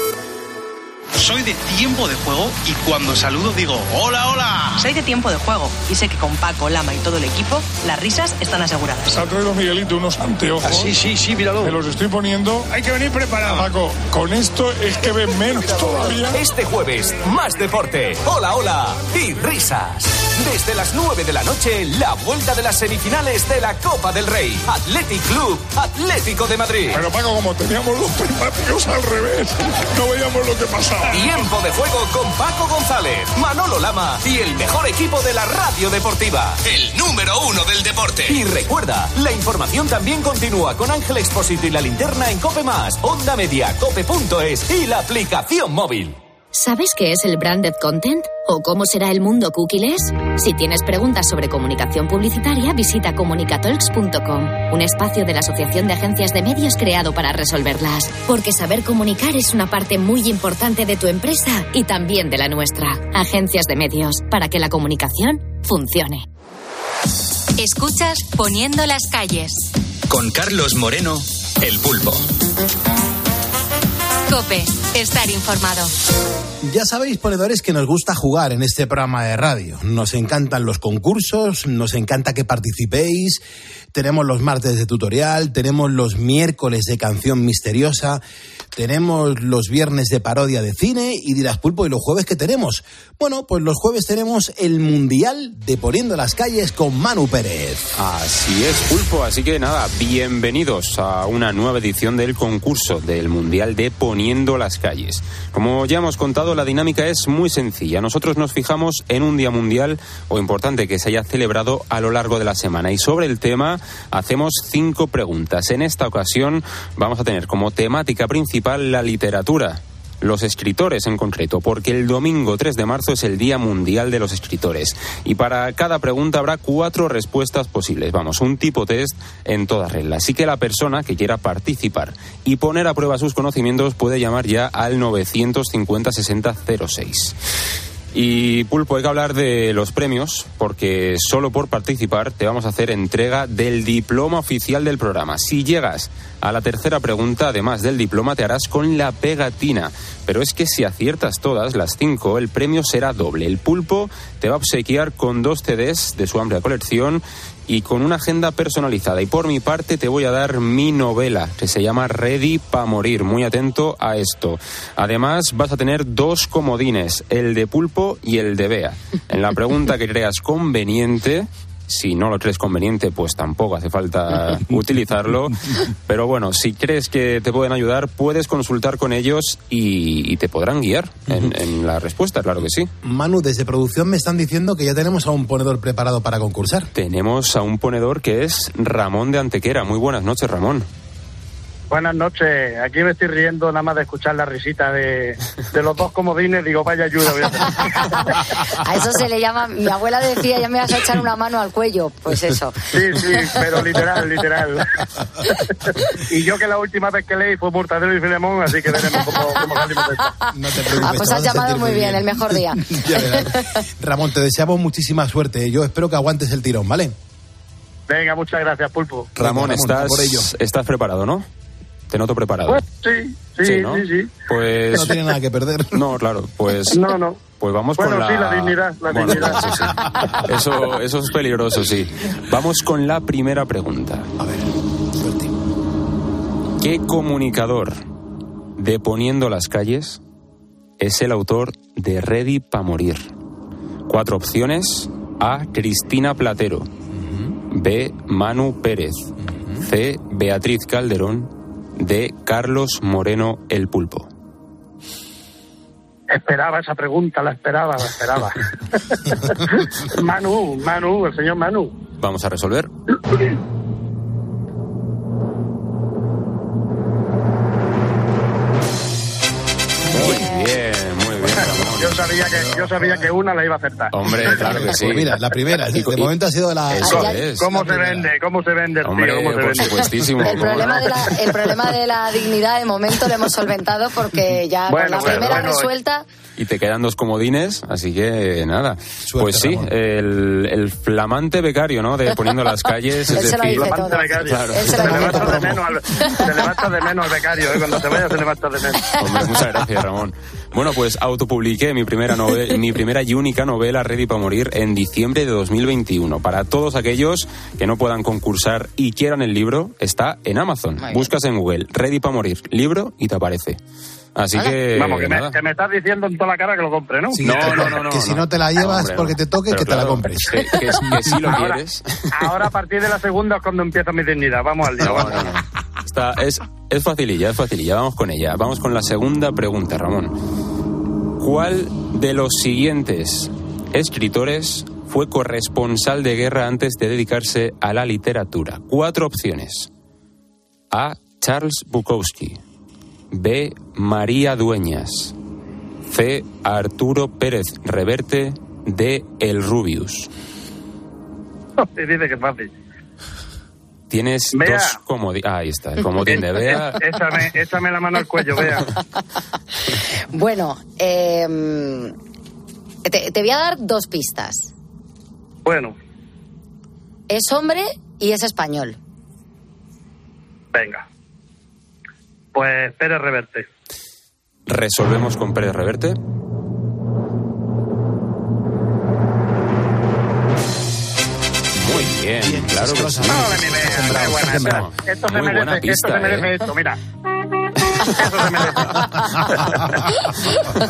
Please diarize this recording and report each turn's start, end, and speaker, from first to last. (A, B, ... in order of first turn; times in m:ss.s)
0:01.2-0:04.9 A
0:04.8-0:09.2 B
0:09.1-0:11.0 C
0:11.6-0:16.4 C
0:16.3-0:27.0 D
0:26.9-0:31.4 C
0:31.1-0:46.2 D
0:46.5-1:06.2 E
1:07.6-1:09.6 F
1:10.1-1:12.3 G
1:14.3-1:15.9 F
1:16.6-1:23.4 H
1:23.9-1:28.2 H
1:28.8-1:37.9 H
1:38.0-2:17.4 I
2:18.1-3:02.9 I
3:01.3-3:01.5 H
3:03.0-3:06.9 H
3:07.0-3:10.9 I
3:11.9-3:18.2 J
3:18.7-3:23.6 K
3:22.9-3:24.8 J
3:26.3-3:30.3 J
3:30.2-3:33.8 K
3:30.5-3:37.2 H
3:38.1-3:39.4 J
3:39.4-3:40.5 H
3:39.4-3:41.4 I
3:42.1-3:42.8 I
3:42.7-3:44.5 J
3:43.6-3:45.2 I
3:44.9-3:46.0 H
3:45.9-3:54.3 I
3:46.9-3:49.8 J
3:49.3-3:50.4 H
3:54.4-3:55.5 H
3:56.8-3:58.0 I
3:58.8-4:00.2 I
4:01.0-4:03.3 I
4:04.1-4:06.9 I
4:07.2-4:07.5 H
4:07.7-4:14.3 I
4:09.5-4:09.8 H
4:16.3-4:21.9 J
4:22.2-4:22.9 I
4:30.1-4:32.3 I
4:30.2-4:30.8 K
4:31.9-4:34.2 J
4:32.5-4:33.2 H
4:34.1-4:35.4 I
4:34.5-4:38.3 H
4:35.9-4:36.3 I
4:36.9-4:38.1 I
4:37.0-4:37.5 K
4:37.1-4:40.0 J
4:39.0-4:41.3 I
4:40.3-4:46.2 K
4:44.9-4:45.9 J
4:46.6-4:55.0 I
4:49.2-4:49.9 H
4:53.2-4:56.5 K
4:53.6-4:59.1 J
4:54.8-4:55.8 H
4:59.2-5:13.8 I
5:11.0-5:11.3 K
5:14.4-5:15.6 I
5:14.9-5:17.8 J
5:17.3-5:21.2 H
5:17.4-5:22.3 I
5:21.5-5:21.8 J
5:22.3-5:25.5 J
5:25.0-5:25.3 H
5:25.0-5:30.3 I
5:31.4-5:39.9 I
5:40.9-5:42.6 I
5:43.3-5:45.4 I
5:46.1-5:50.3 I
5:51.8-5:52.7 J
5:54.1-5:57.0 I
5:54.5-5:55.0 J
5:56.2-5:58.9 J
6:00.3-6:02.2 K
6:03.0-6:04.7 K
6:05.6-6:06.0 J
6:07.3-6:09.0 K
6:10.7-6:11.0 J
6:12.6-6:13.7 J
6:14.7-6:16.2 I
6:21.8-6:26.5 I
6:22.4-6:24.9 H
6:23.3-6:27.0 J
6:28.1-6:29.9 J
6:29.4-6:30.1 H